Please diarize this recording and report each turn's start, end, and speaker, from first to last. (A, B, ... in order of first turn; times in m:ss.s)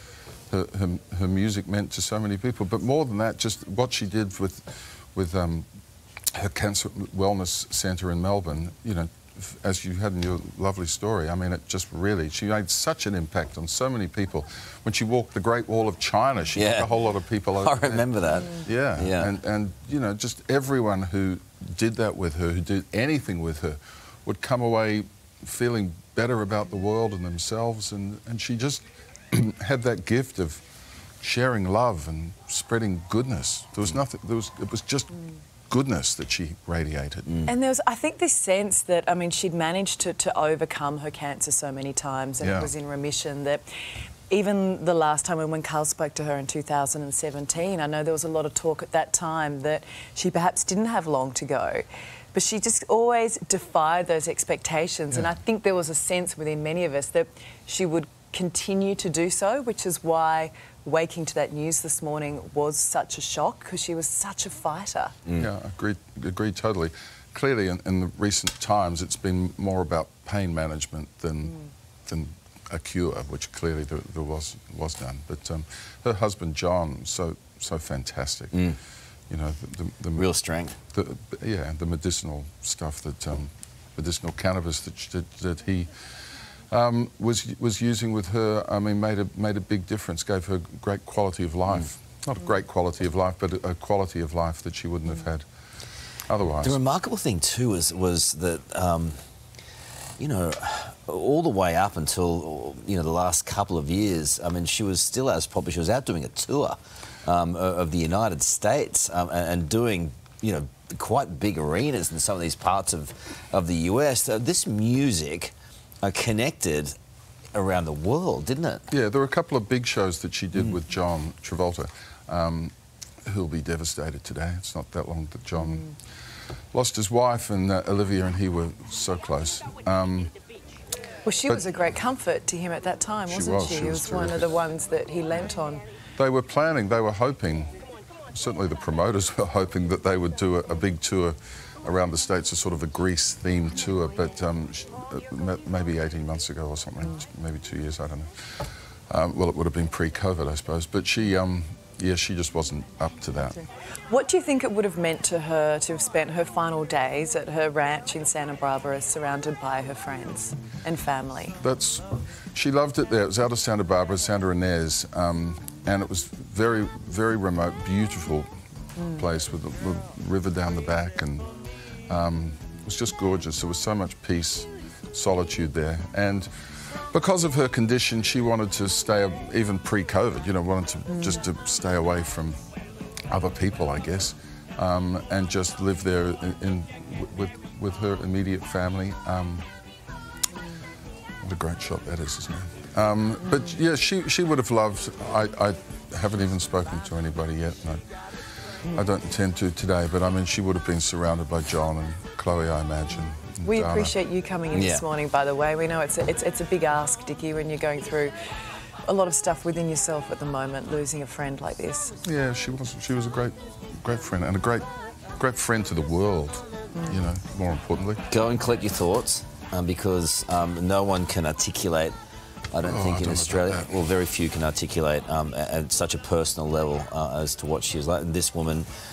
0:00.5-0:05.7 A
0:06.3-0:18.1 A
0:16.6-0:16.9 B
0:17.6-0:19.3 B
0:18.6-0:30.6 A
0:31.2-0:35.1 A
0:35.7-0:37.4 A
0:37.3-0:37.5 B
0:37.5-0:43.6 C
0:42.4-0:42.7 A
0:44.3-1:05.2 C
1:05.4-1:18.6 A
1:18.5-1:18.8 B
1:19.3-1:20.3 A
1:20.2-1:20.8 B
1:20.9-1:35.4 A
1:36.3-1:36.8 A
1:36.6-1:39.2 B
1:40.2-1:57.0 B
1:57.5-1:58.9 B
1:58.9-2:02.7 A
2:03.2-2:06.0 A
2:06.7-2:10.3 A
2:11.2-2:15.8 C
2:13.3-2:14.5 A
2:16.2-2:17.8 A
2:18.3-2:33.6 A
2:34.1-2:41.6 C
2:41.6-2:48.5 A
2:49.1-2:51.5 A
2:52.1-3:02.6 A
3:03.3-3:09.7 A
3:11.4-3:18.1 A
3:18.8-3:24.1 A
3:23.6-3:28.3 C
3:24.7-3:25.0 B
3:29.0-3:32.2 C
3:32.2-3:38.2 A
3:37.0-3:37.2 C
3:38.3-3:42.2 B
3:42.7-3:48.9 B
3:42.8-3:44.0 A